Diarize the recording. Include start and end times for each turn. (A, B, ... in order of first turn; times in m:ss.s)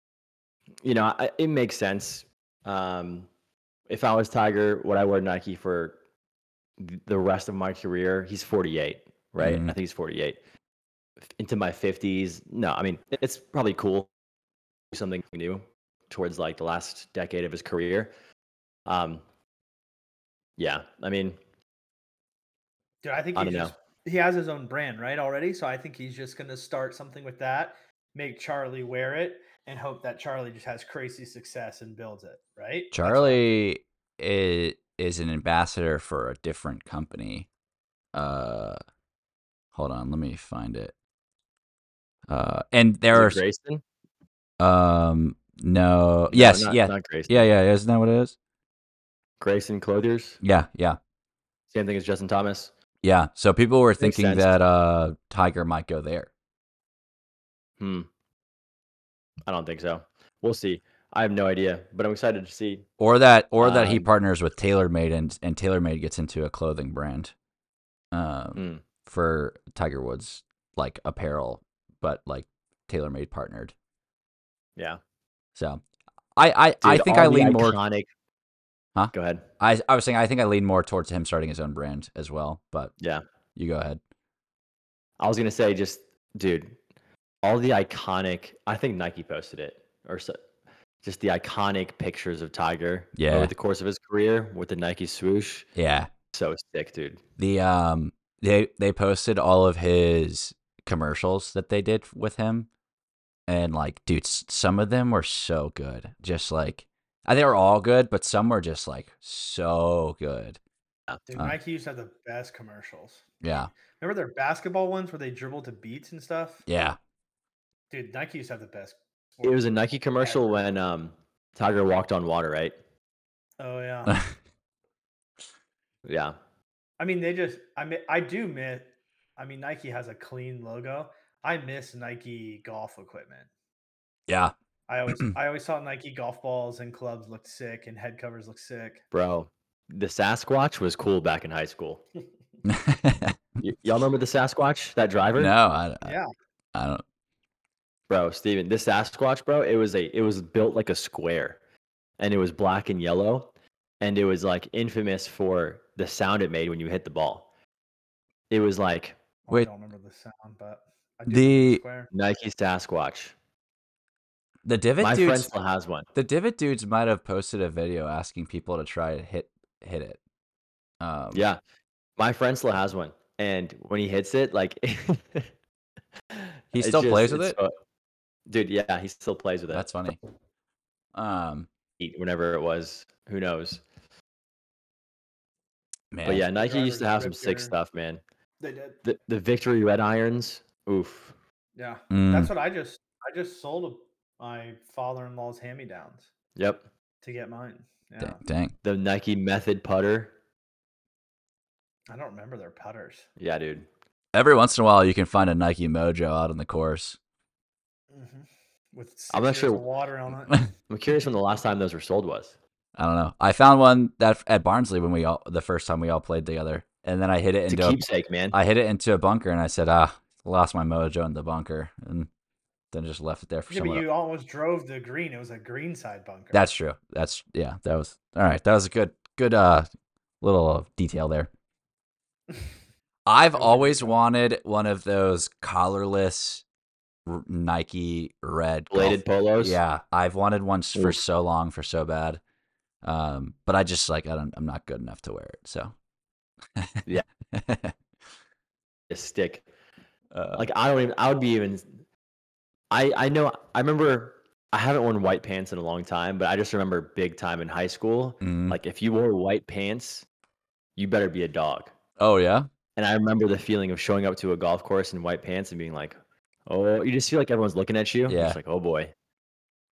0:00.8-0:03.3 A
0:03.9-0:06.0 A
0:06.8-0:10.4 A
0:09.4-0:09.7 B
0:11.3-0:14.1 A
0:14.9-0:18.1 A
0:18.9-0:19.2 A
0:20.6-0:21.4 A
0:23.0-0:33.4 C
0:23.3-0:23.7 A
0:32.9-0:37.5 B
0:38.1-0:38.8 B
0:39.7-0:40.9 B
0:42.3-0:43.4 B
0:43.1-0:43.8 A
0:44.6-0:48.3 B
0:46.3-0:47.5 A
0:49.4-0:50.4 A
0:50.4-0:51.0 B
0:51.7-0:52.7 A
0:53.0-0:56.3 B
0:54.0-0:54.5 A
0:57.8-0:58.1 A
0:59.4-1:02.9 A
1:03.0-1:07.3 B
1:03.6-1:04.1 A
1:08.1-1:13.7 B
1:08.6-1:08.8 A
1:14.8-1:15.0 A
1:15.6-1:15.8 B
1:16.4-1:17.8 B
1:16.8-1:18.1 A
1:19.0-1:22.9 B
1:19.1-1:19.4 A
1:23.6-1:24.0 B
1:25.2-1:26.8 A
1:27.4-1:30.4 A
1:31.0-1:35.7 A
1:33.2-1:33.5 B
1:35.7-1:36.1 B
1:36.3-1:37.2 A
1:37.4-1:42.7 B
1:43.5-1:50.6 B
1:51.3-1:56.6 C
1:53.4-1:53.7 B
1:56.7-1:57.0 B
1:57.9-2:00.6 C
1:59.4-2:02.7 A
2:03.6-2:04.2 C
2:04.1-2:04.3 B
2:06.0-2:06.4 A
2:07.0-2:13.5 C
2:14.3-2:14.5 B
2:14.9-2:19.0 C
2:19.1-2:22.0 A
2:22.6-2:23.4 B
2:23.6-2:25.5 A
2:25.4-2:26.1 B
2:26.0-2:26.3 C
2:26.7-2:27.0 B
2:28.1-2:31.6 A
2:32.2-2:37.5 A
2:38.5-2:39.2 A
2:39.5-2:42.1 C
2:41.3-2:41.8 B
2:42.1-2:43.3 A
2:44.6-2:45.5 B
2:45.0-2:46.1 A
2:46.1-2:50.2 B
2:51.0-2:51.5 B
2:51.3-2:51.6 A
2:52.2-2:55.5 A
2:56.3-2:57.7 A
2:56.7-2:57.6 B
2:58.5-2:59.9 A
2:59.7-3:00.2 B
3:01.1-3:01.7 B
3:02.0-3:03.8 A
3:06.1-3:06.4 B
3:06.2-3:08.2 A
3:06.3-3:07.7 C
3:08.6-3:09.0 C
3:09.0-3:11.3 A
3:11.8-3:16.3 C
3:12.1-3:12.5 B
3:16.6-3:16.8 A
3:17.2-3:18.4 C
3:18.2-3:18.7 B
3:18.8-3:20.3 A
3:22.1-3:23.3 C
3:23.4-3:23.9 A
3:24.3-3:27.2 B
3:28.1-3:30.6 C
3:29.3-3:29.8 A
3:30.9-3:32.5 A
3:33.0-3:38.0 B
3:37.7-3:38.6 A
3:38.5-3:42.3 B
3:42.9-3:44.0 B
3:43.7-3:46.6 C
3:46.5-3:49.9 B
3:50.4-3:51.5 B
3:53.3-3:56.6 B
3:53.5-3:54.2 C
3:57.2-4:02.4 B
3:58.9-3:59.8 A
4:03.0-4:05.9 B
4:06.8-4:08.0 B
4:09.1-4:09.6 A
4:10.3-4:10.6 B
4:10.6-4:11.9 A
4:12.9-4:20.2 A
4:18.4-4:18.8 B
4:21.0-4:21.9 A
4:22.2-4:22.7 B
4:23.0-4:26.2 A
4:26.7-4:29.1 A
4:28.3-4:28.6 B